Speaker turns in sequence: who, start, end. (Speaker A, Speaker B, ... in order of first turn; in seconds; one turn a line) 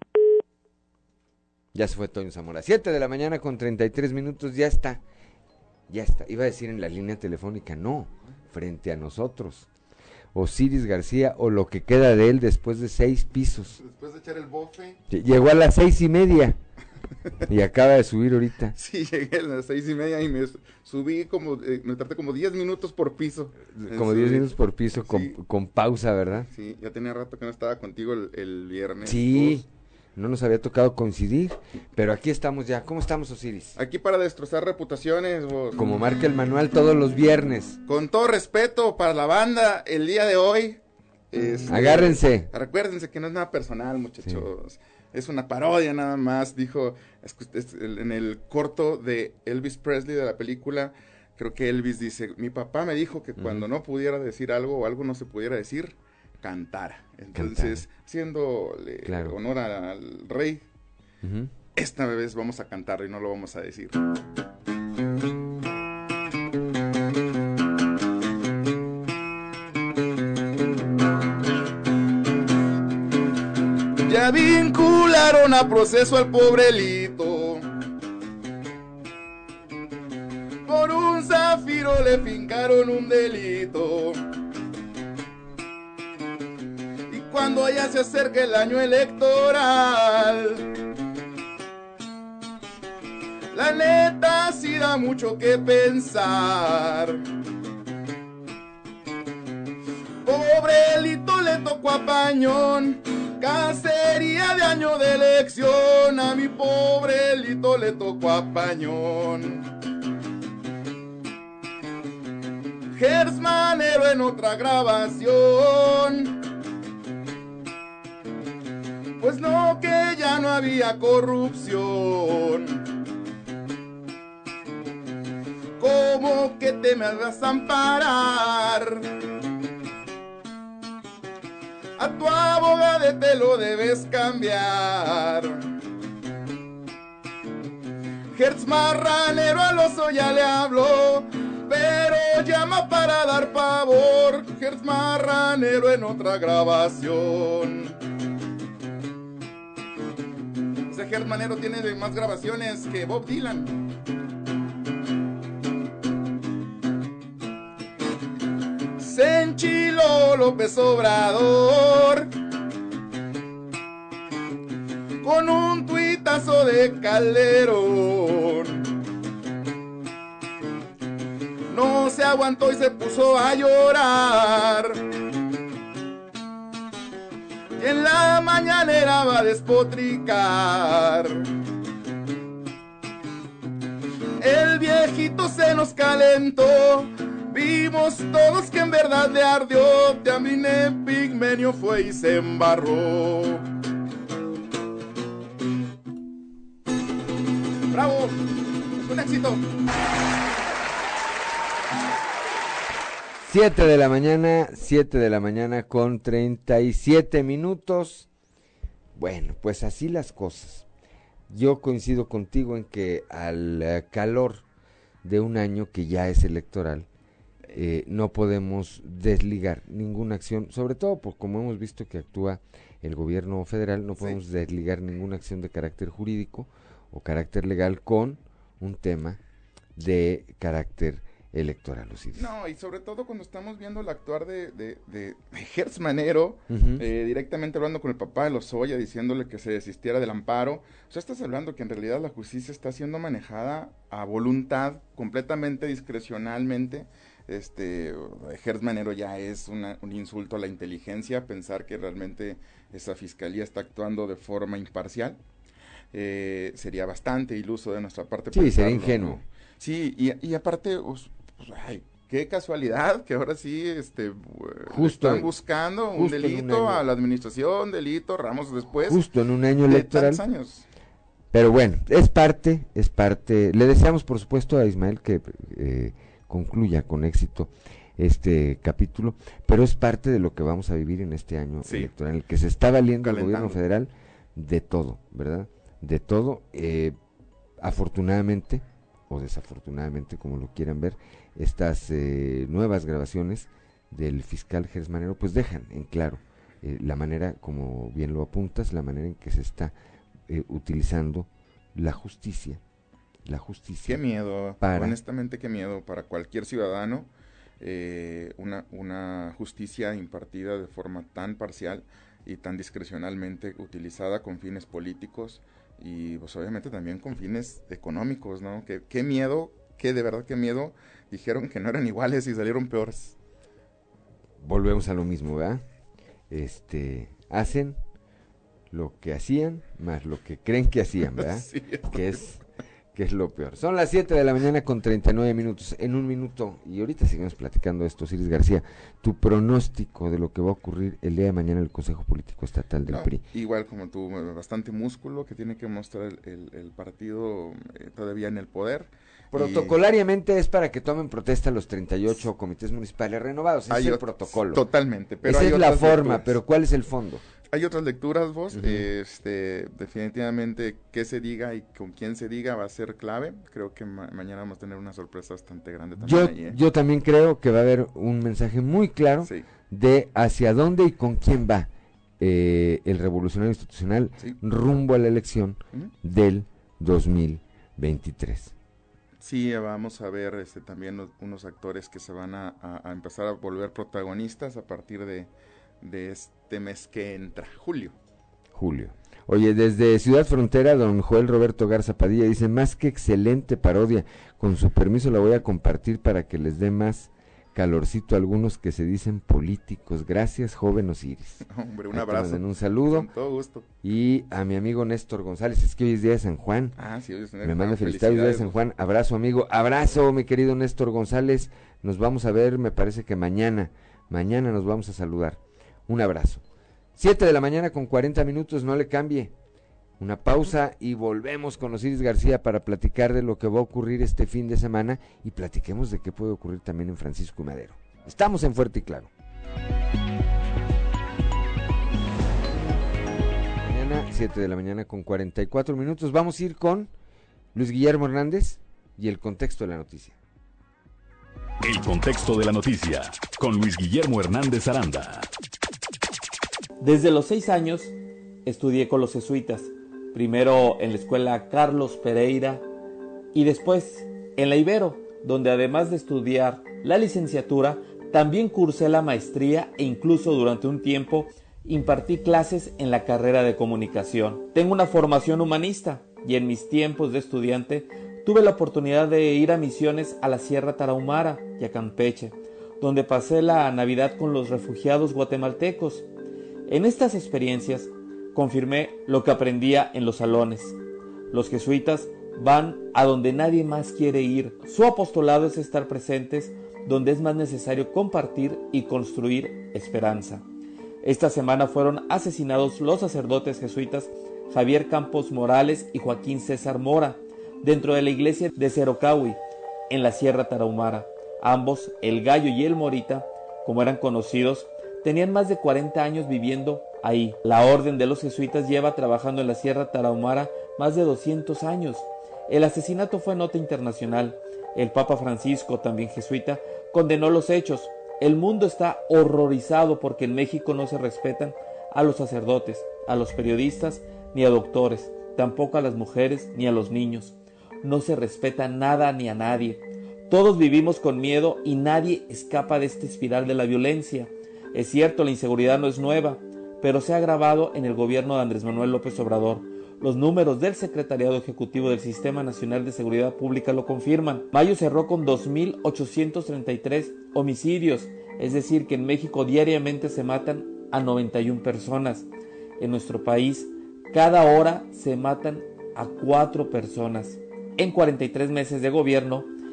Speaker A: 1.7-5.0
Speaker A: 5.9-9.7
Speaker A: 10.3-13.8
Speaker B: 13.8-15.0
Speaker A: 15.1-16.6
Speaker A: 17.5-18.7
Speaker B: 18.7-25.4
Speaker A: 23.7-26.5
Speaker B: 26.5-29.6
Speaker A: 29.0-33.8
Speaker B: 33.8-35.8
Speaker A: 35.8-37.8
Speaker B: 37.8-40.8
Speaker B: 41.3-60.6
Speaker A: 41.7-42.5
Speaker A: 53.4-53.6
Speaker A: 57.3-57.9
Speaker A: 59.0-59.4
Speaker A: 61.2-61.5
Speaker B: 61.8-64.0
Speaker B: 74.0-77.6
Speaker B: 80.7-84.2
Speaker B: 87.1-90.7
Speaker B: 93.5-97.2
Speaker B: 100.2-109.6
Speaker B: 112.9-116.4
Speaker B: 119.2-122.9
Speaker B: 125.8-129.1
Speaker B: 132.0-135.6
Speaker B: 138.3-147.9
Speaker B: 150.9-153.7
Speaker B: 159.0-162.3
Speaker B: 165.2-168.8
Speaker B: 171.7-175.0
Speaker B: 177.8-181.4
Speaker B: 184.4-193.6
Speaker B: 197.9-199.6
Speaker A: 203.4-208.3
Speaker A: 209.2-210.8
Speaker A: 211.5-214.6
Speaker A: 215.2-217.1
Speaker A: 217.7-229.4
Speaker A: 229.9-232.5
Speaker B: 232.3-255.4
Speaker A: 236.7-237.1
Speaker B: 256.1-269.2
Speaker A: 258.5-259.4
Speaker A: 264.9-265.5
Speaker A: 266.1-267.1
Speaker A: 269.1-270.4
Speaker B: 269.8-270.8
Speaker A: 271.5-287.1
Speaker B: 281.8-282.1
Speaker B: 283.2-283.8
Speaker A: 287.8-299.9
Speaker A: 300.5-302.8
Speaker A: 303.4-304.2
Speaker B: 304.0-323.3
Speaker A: 304.8-305.2
Speaker A: 324.6-325.8
Speaker A: 326.5-328.0
Speaker A: 328.9-332.6
Speaker B: 331.2-332.4
Speaker A: 333.1-343.4
Speaker B: 343.1-350.0
Speaker A: 349.5-354.8
Speaker B: 353.9-356.6
Speaker A: 355.4-357.4
Speaker B: 357.7-366.8
Speaker A: 358.7-359.1
Speaker A: 366.2-371.9
Speaker B: 369.4-369.7
Speaker A: 372.4-378.7
Speaker B: 379.4-385.5
Speaker B: 386.0-388.1
Speaker A: 388.7-403.3
Speaker B: 401.6-403.9
Speaker A: 404.0-407.0
Speaker B: 406.9-408.8
Speaker A: 407.6-416.6
Speaker A: 417.1-419.5
Speaker A: 420.2-429.3
Speaker A: 433.8-437.1
Speaker A: 437.7-440.4
Speaker C: 441.8-445.5
Speaker D: 447.0-448.1
Speaker D: 448.6-452.8
Speaker D: 453.5-476.2
Speaker D: 476.9-480.9
Speaker D: 481.5-490.6
Speaker D: 491.2-499.6
Speaker D: 500.1-552.5
Speaker D: 553.0-559.7